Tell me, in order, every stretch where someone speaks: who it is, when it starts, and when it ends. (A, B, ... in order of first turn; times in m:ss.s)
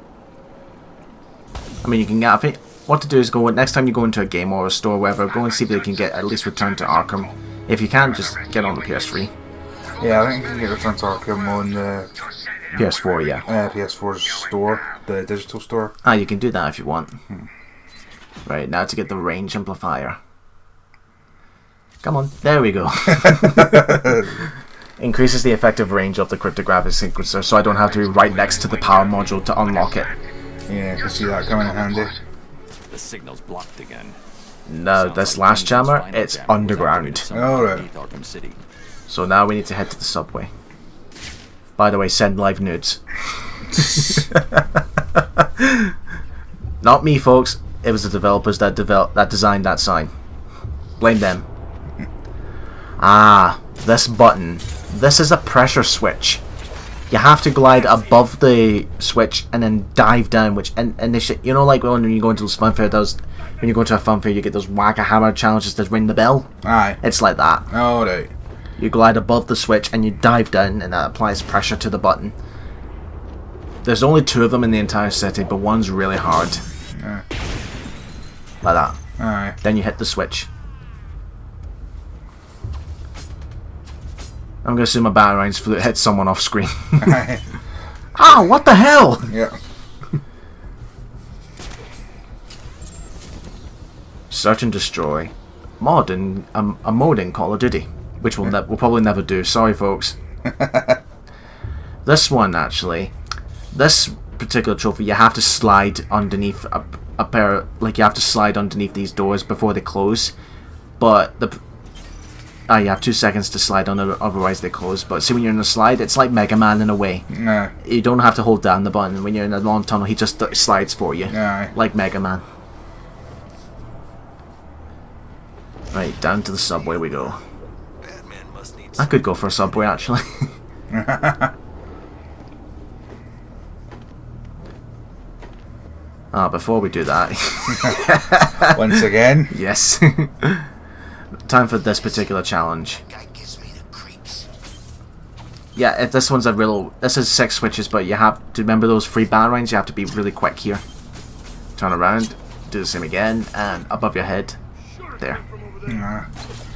0:01.8-0:09.3 A
0:05.2-0:07.3 B
0:08.0-0:15.0 B
0:10.0-0:12.1 C
0:12.7-0:13.5 A
0:13.4-0:16.0 C
0:16.0-0:17.2 A
0:18.4-0:20.2 A
0:22.0-0:24.0 A
0:23.2-0:24.3 C
0:25.0-0:30.1 A
0:28.3-0:29.2 D
0:29.6-0:30.1 B
0:30.7-0:32.1 C
0:31.2-0:32.0 B
0:32.9-0:34.2 D
0:34.7-0:37.3 A
0:34.9-0:38.6 D
0:37.3-0:37.8 C
0:39.1-0:40.5 A
0:41.8-0:43.0 A
0:45.4-0:45.9 A
0:46.8-0:50.1 A
0:51.0-0:51.4 A
0:53.0-0:56.4 A
0:57.1-1:06.5 A
1:06.6-1:07.0 C
1:07.0-1:07.7 A
1:07.7-1:08.3 C
1:08.8-1:12.3 A
1:13.8-1:16.6 A
1:16.9-1:17.2 C
1:18.6-1:19.0 A
1:19.2-1:19.6 C
1:19.6-1:20.5 A
1:24.6-1:27.2 A
1:27.0-1:27.4 C
1:28.1-1:29.3 A
1:29.3-1:29.6 C
1:34.3-1:40.2 A
1:40.4-1:41.0 C
1:42.0-1:43.1 A
1:43.7-1:50.3 A
1:51.0-1:51.6 A
1:52.7-1:57.2 A
1:57.3-1:57.7 C
1:57.8-2:02.4 A
2:01.3-2:01.7 C
2:05.9-2:07.4 A
2:08.0-2:09.2 B
2:09.0-2:10.5 A
2:10.9-2:11.5 C
2:16.3-2:19.0 A
2:18.6-2:19.5 C
2:19.5-2:20.7 A
2:21.4-2:23.0 A
2:22.0-2:22.2 B
2:22.9-2:24.5 B
2:25.8-2:30.8 A
2:31.8-2:34.6 A
2:35.8-2:36.3 C